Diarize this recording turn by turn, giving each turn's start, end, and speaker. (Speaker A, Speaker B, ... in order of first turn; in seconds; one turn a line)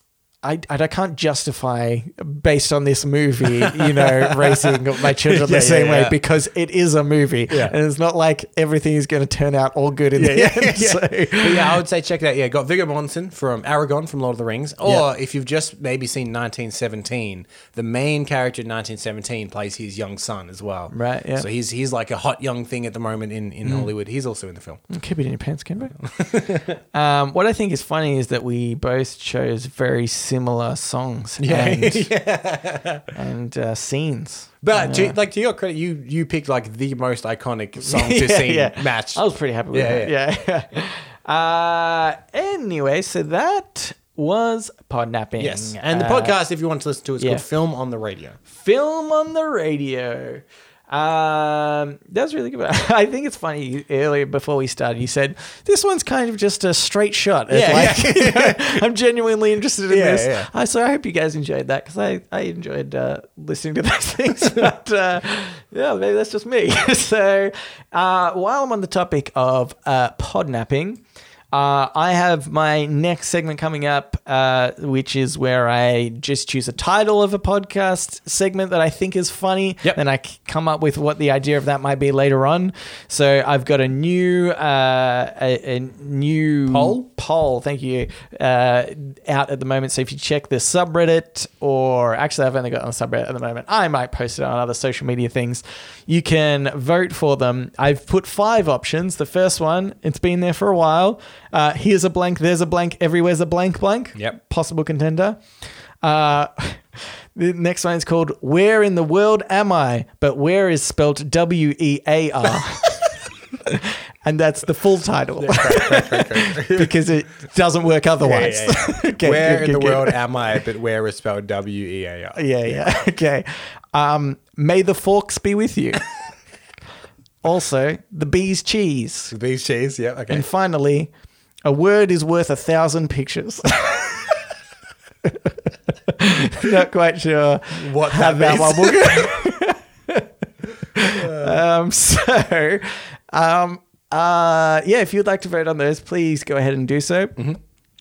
Speaker A: 0.4-11.8
Speaker B: 3.6-6.2
Speaker B: 7.5-7.8
Speaker B: 10.1-24.8
Speaker A: 20.9-21.4
Speaker A: 23.6-23.9
Speaker A: 24.9-26.0
Speaker B: 26.0-26.8
Speaker A: 26.9-32.1
Speaker B: 31.4-33.1
Speaker A: 33.1-35.1
Speaker B: 34.6-40.1
Speaker A: 37.8-46.4
Speaker B: 45.4-48.4
Speaker A: 47.2-47.4
Speaker A: 48.5-71.0
Speaker B: 57.5-58.8
Speaker B: 59.9-60.5
Speaker A: 71.5-105.4
Speaker B: 86.7-87.0
Speaker A: 106.0-113.1
Speaker A: 113.6-120.2
Speaker B: 115.4-117.0
Speaker B: 118.2-122.4
Speaker A: 122.3-126.0
Speaker A: 127.4-129.3
Speaker B: 129.3-130.4
Speaker A: 130.3-131.1
Speaker A: 131.6-134.4
Speaker A: 135.2-140.3
Speaker B: 137.7-139.3
Speaker A: 140.9-147.4
Speaker B: 141.1-141.6